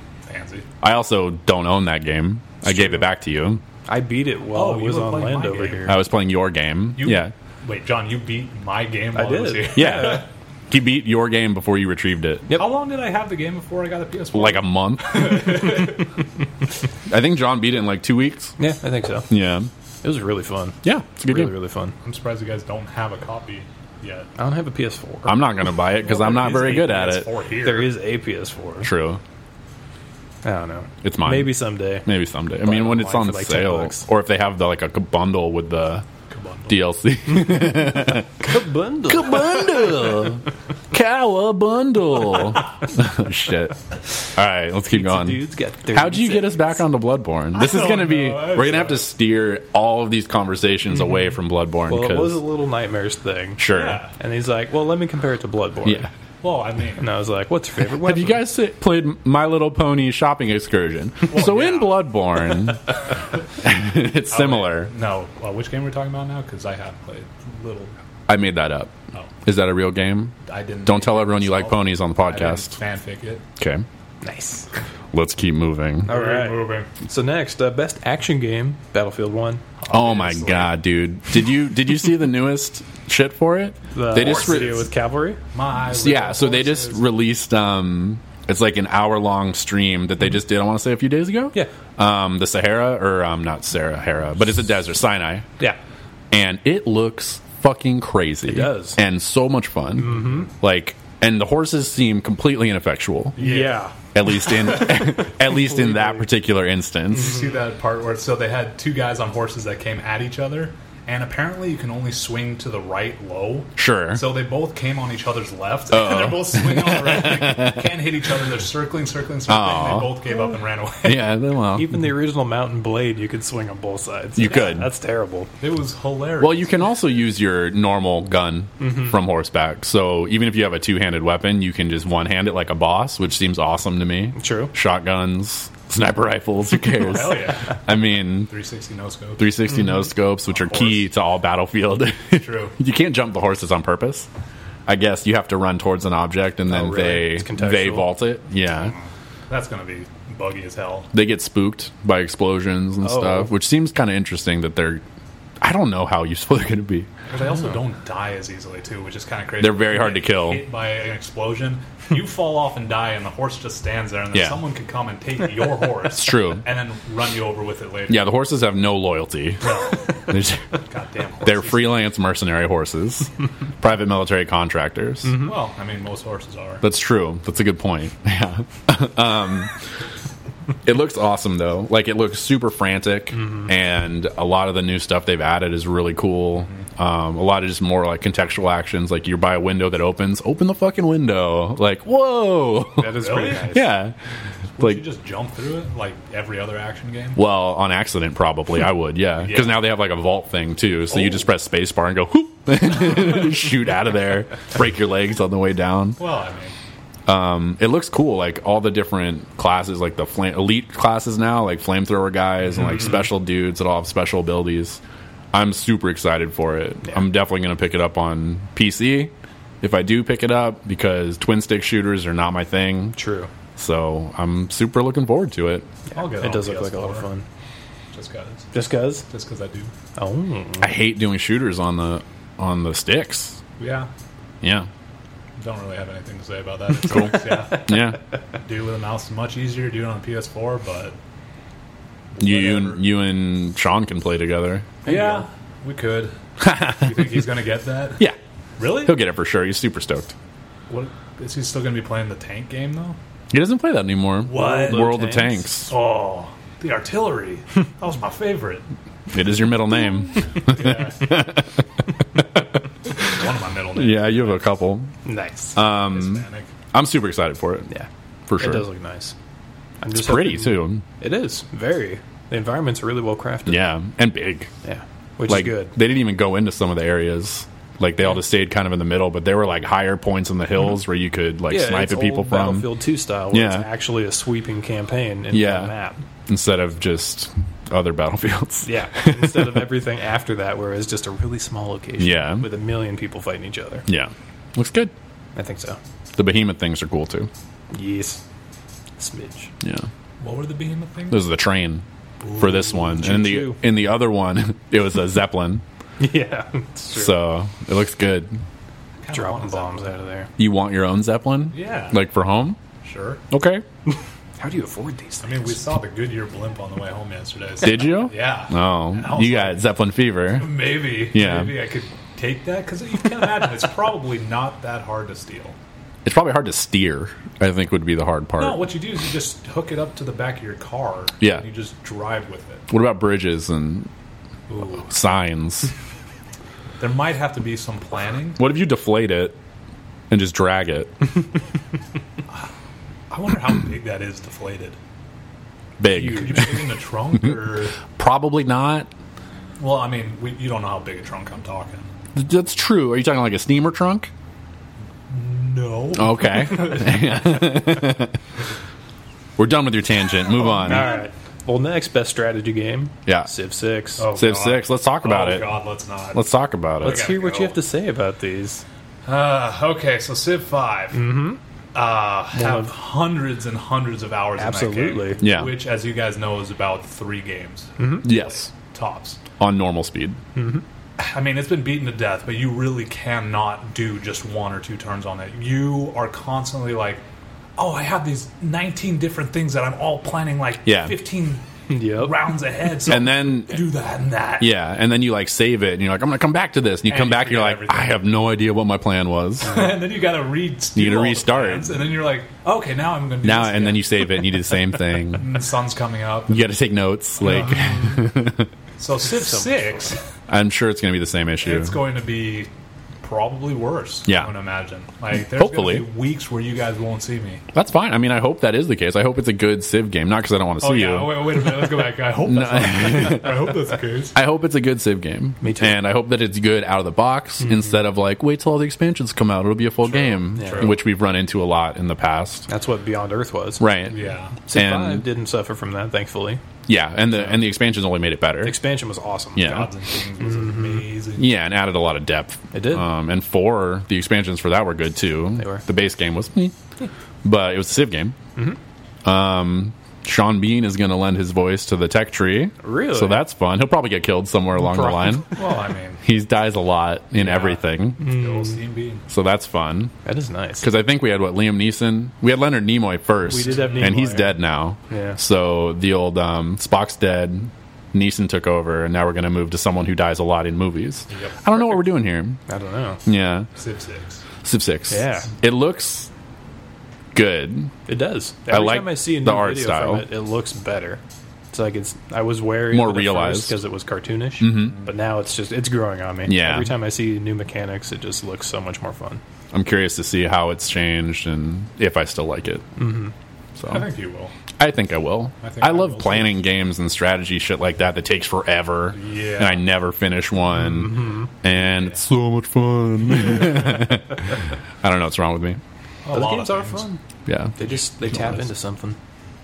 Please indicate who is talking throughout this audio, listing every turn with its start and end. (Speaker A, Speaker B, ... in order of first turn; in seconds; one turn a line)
Speaker A: 0.3-0.7
Speaker B: 0.8-3.6
Speaker C: 3.9-6.0
Speaker A: 4.5-6.0
Speaker B: 5.8-7.3
Speaker A: 7.0-10.3
Speaker C: 9.1-10.2
Speaker B: 9.7-12.6
Speaker A: 12.5-16.1
Speaker B: 14.3-15.7
Speaker B: 17.1-18.6
Speaker C: 18.6-19.3
Speaker B: 19.3-19.7
Speaker C: 20.0-21.9
Speaker B: 20.8-21.5
Speaker A: 22.0-24.3
Speaker C: 24.4-25.4
Speaker B: 25.2-27.3
Speaker A: 26.0-27.9
Speaker C: 27.6-28.9
Speaker B: 28.8-29.2
Speaker C: 30.4-32.1
Speaker B: 31.0-36.0
Speaker C: 32.6-34.0
Speaker A: 36.3-36.8
Speaker B: 36.7-38.3
Speaker C: 38.2-40.2
Speaker B: 39.1-52.4
Speaker C: 44.9-46.8
Speaker A: 47.5-49.1
Speaker C: 51.9-56.1
Speaker B: 53.6-54.0
Speaker A: 53.7-54.1
Speaker A: 56.4-57.1
Speaker C: 57.0-58.4
Speaker B: 57.9-63.0
Speaker A: 61.2-62.1
Speaker B: 63.6-64.9
Speaker A: 64.3-67.9
Speaker B: 68.3-68.9
Speaker B: 69.4-70.3
Speaker A: 70.4-73.4
Speaker B: 70.8-72.7
Speaker B: 73.6-73.8
Speaker C: 74.2-74.7
Speaker B: 75.1-76.1
Speaker A: 76.0-76.9
Speaker C: 76.1-79.6
Speaker A: 79.8-80.8
Speaker B: 79.9-84.8
Speaker C: 83.9-85.4
Speaker A: 84.1-84.9
Speaker A: 85.5-87.2
Speaker B: 85.9-95.5
Speaker B: 96.3-103.4
Speaker C: 98.4-99.0
Speaker C: 100.0-100.5
Speaker A: 103.4-103.8
Speaker C: 103.4-103.9
Speaker B: 104.1-107.4
Speaker A: 104.5-105.1
Speaker C: 105.4-106.2
Speaker A: 107.1-121.4
Speaker B: 113.8-114.2
Speaker B: 115.9-117.8
Speaker B: 119.5-120.2
Speaker B: 121.0-122.0
Speaker C: 121.8-125.5
Speaker B: 124.3-124.9
Speaker A: 125.6-126.8
Speaker B: 126.4-138.5
Speaker C: 128.8-129.1
Speaker C: 134.3-134.7
Speaker A: 136.9-139.7
Speaker B: 139.4-144.3
Speaker A: 140.5-141.1
Speaker A: 142.3-142.7
Speaker B: 144.9-148.9
Speaker C: 146.7-148.1
Speaker A: 148.8-151.1
Speaker B: 151.1-155.0
Speaker C: 153.0-153.5
Speaker B: 155.6-157.1
Speaker A: 157.3-168.3
Speaker B: 159.6-160.6
Speaker B: 164.3-164.6
Speaker B: 166.2-166.6
Speaker B: 168.1-170.6
Speaker A: 169.6-170.3
Speaker A: 170.9-172.0
Speaker B: 171.4-175.4
Speaker A: 175.3-176.8
Speaker B: 176.8-179.7
Speaker B: 180.8-194.1
Speaker C: 193.0-193.9
Speaker A: 193.1-193.8
Speaker A: 194.8-197.4
Speaker B: 197.3-206.2
Speaker A: 199.4-199.8
Speaker A: 201.1-201.5
Speaker A: 206.2-206.7
Speaker B: 207.3-215.0
Speaker B: 215.5-223.2
Speaker C: 223.1-223.5
Speaker B: 223.8-225.9
Speaker A: 226.1-227.3
Speaker C: 226.3-227.4
Speaker A: 228.1-229.9
Speaker C: 228.7-229.2
Speaker C: 230.2-230.9
Speaker B: 230.8-233.6
Speaker A: 233.8-234.1
Speaker B: 234.6-234.9
Speaker A: 235.6-241.1
Speaker B: 237.0-238.2
Speaker A: 242.3-243.0
Speaker B: 242.4-245.0
Speaker A: 245.0-246.3
Speaker C: 245.0-245.4
Speaker B: 246.6-247.4
Speaker A: 246.9-248.2
Speaker A: 248.8-249.2
Speaker B: 249.0-250.3
Speaker A: 250.9-253.2
Speaker B: 253.5-255.9
Speaker A: 254.4-255.2
Speaker C: 254.5-255.6
Speaker A: 255.9-258.8
Speaker B: 259.3-261.7
Speaker A: 260.6-261.5
Speaker B: 262.3-263.3
Speaker A: 263.2-264.6
Speaker B: 263.9-265.1
Speaker C: 265.2-265.8
Speaker B: 265.7-267.9
Speaker A: 265.8-266.7
Speaker C: 267.9-269.3
Speaker B: 268.5-268.9
Speaker C: 270.0-273.9
Speaker B: 270.1-271.0
Speaker B: 273.7-274.7
Speaker C: 274.8-275.9
Speaker B: 275.5-283.0
Speaker C: 281.7-286.2
Speaker B: 283.5-283.9
Speaker B: 285.5-285.9
Speaker B: 286.5-289.8
Speaker C: 288.8-294.1
Speaker B: 292.2-292.7
Speaker B: 294.1-295.1
Speaker C: 295.6-296.0
Speaker B: 296.4-297.5
Speaker C: 297.9-298.4
Speaker C: 299.2-299.7
Speaker B: 299.8-300.1
Speaker A: 300.4-301.5
Speaker B: 301.3-302.0
Speaker A: 302.4-303.0
Speaker B: 302.6-305.8
Speaker C: 303.1-303.8
Speaker C: 306.2-307.4
Speaker B: 307.1-308.6
Speaker A: 309.2-310.1
Speaker C: 309.3-310.5
Speaker B: 310.6-312.8
Speaker A: 311.7-312.2
Speaker A: 313.0-313.4
Speaker B: 313.5-313.8
Speaker C: 314.6-315.7
Speaker A: 315.4-319.9
Speaker B: 317.8-321.8
Speaker A: 320.6-325.7
Speaker B: 326.2-328.9
Speaker A: 328.6-332.9
Speaker B: 331.4-331.6
Speaker B: 332.9-334.1
Speaker A: 334.7-335.1
Speaker B: 335.0-335.9
Speaker A: 337.0-338.6
Speaker B: 338.6-339.6
Speaker B: 340.3-341.1
Speaker A: 343.3-345.0
Speaker B: 346.0-346.8
Speaker A: 346.1-348.0
Speaker B: 348.1-349.1
Speaker A: 349.8-352.1
Speaker B: 352.3-354.3
Speaker A: 355.3-357.2
Speaker B: 356.1-358.4
Speaker B: 359.6-361.1
Speaker C: 360.6-364.3
Speaker A: 360.8-361.2
Speaker A: 364.2-366.5
Speaker B: 364.3-365.7
Speaker B: 366.3-367.3
Speaker A: 367.0-367.8
Speaker C: 367.0-368.8
Speaker A: 369.2-371.2
Speaker C: 371.1-371.6
Speaker A: 371.9-379.4
Speaker C: 372.5-372.9
Speaker C: 374.6-375.4
Speaker B: 375.4-375.8
Speaker C: 378.0-378.2
Speaker B: 378.2-378.7
Speaker B: 379.6-380.4
Speaker C: 380.5-380.8
Speaker A: 381.2-387.2
Speaker A: 387.8-394.7
Speaker B: 390.9-391.1
Speaker C: 391.9-392.3
Speaker B: 393.1-393.8
Speaker B: 394.6-399.9
Speaker A: 397.0-398.2
Speaker A: 399.6-404.2
Speaker B: 400.9-402.0
Speaker B: 403.4-405.5
Speaker A: 405.3-406.7
Speaker B: 406.5-408.7
Speaker A: 407.4-408.1
Speaker C: 407.7-408.1
Speaker A: 409.0-410.2
Speaker B: 410.5-412.0
Speaker A: 411.6-412.7
Speaker A: 413.2-417.6
Speaker B: 414.3-414.5
Speaker B: 415.3-416.1
Speaker B: 417.7-421.7
Speaker A: 420.8-424.4
Speaker B: 422.4-423.8
Speaker B: 424.3-432.7
Speaker C: 425.6-426.0
Speaker C: 427.6-427.9
Speaker A: 430.1-431.0
Speaker C: 430.6-430.9
Speaker C: 432.7-433.9
Speaker B: 433.8-434.2
Speaker A: 434.1-434.6
Speaker C: 434.7-436.6
Speaker B: 434.7-435.2
Speaker B: 436.9-438.8
Speaker C: 438.6-439.8
Speaker B: 439.6-439.9
Speaker A: 439.6-441.5
Speaker C: 440.4-441.0
Speaker B: 441.4-446.7
Speaker C: 442.7-443.1
Speaker C: 445.6-445.8
Speaker B: 447.4-448.3
Speaker B: 449.2-455.5
Speaker C: 452.8-453.4
Speaker C: 454.8-455.4
Speaker A: 455.5-456.2
Speaker B: 456.2-458.2
Speaker A: 457.4-459.2
Speaker C: 458.2-458.8
Speaker B: 459.3-460.1
Speaker C: 460.2-460.9
Speaker B: 460.8-472.6
Speaker C: 463.5-464.5
Speaker A: 463.7-464.2
Speaker C: 465.1-465.4
Speaker A: 471.3-471.6
Speaker C: 472.7-473.2
Speaker B: 473.2-473.7
Speaker A: 473.7-474.4
Speaker B: 474.6-476.3
Speaker C: 475.1-475.5
Speaker B: 477.3-477.9
Speaker C: 478.1-481.2
Speaker B: 478.7-480.3
Speaker C: 481.7-489.4
Speaker B: 482.9-483.8
Speaker B: 484.6-485.0
Speaker B: 486.4-486.9
Speaker B: 489.7-492.9
Speaker C: 493.0-493.3
Speaker B: 493.8-494.0
Speaker A: 493.8-494.5
Speaker B: 494.8-505.8
Speaker A: 495.6-496.5
Speaker A: 499.1-499.8
Speaker C: 500.9-501.5
Speaker A: 501.7-502.2
Speaker A: 506.2-507.1
Speaker C: 506.3-507.2
Speaker B: 507.4-507.7
Speaker C: 507.8-509.2
Speaker A: 507.8-508.3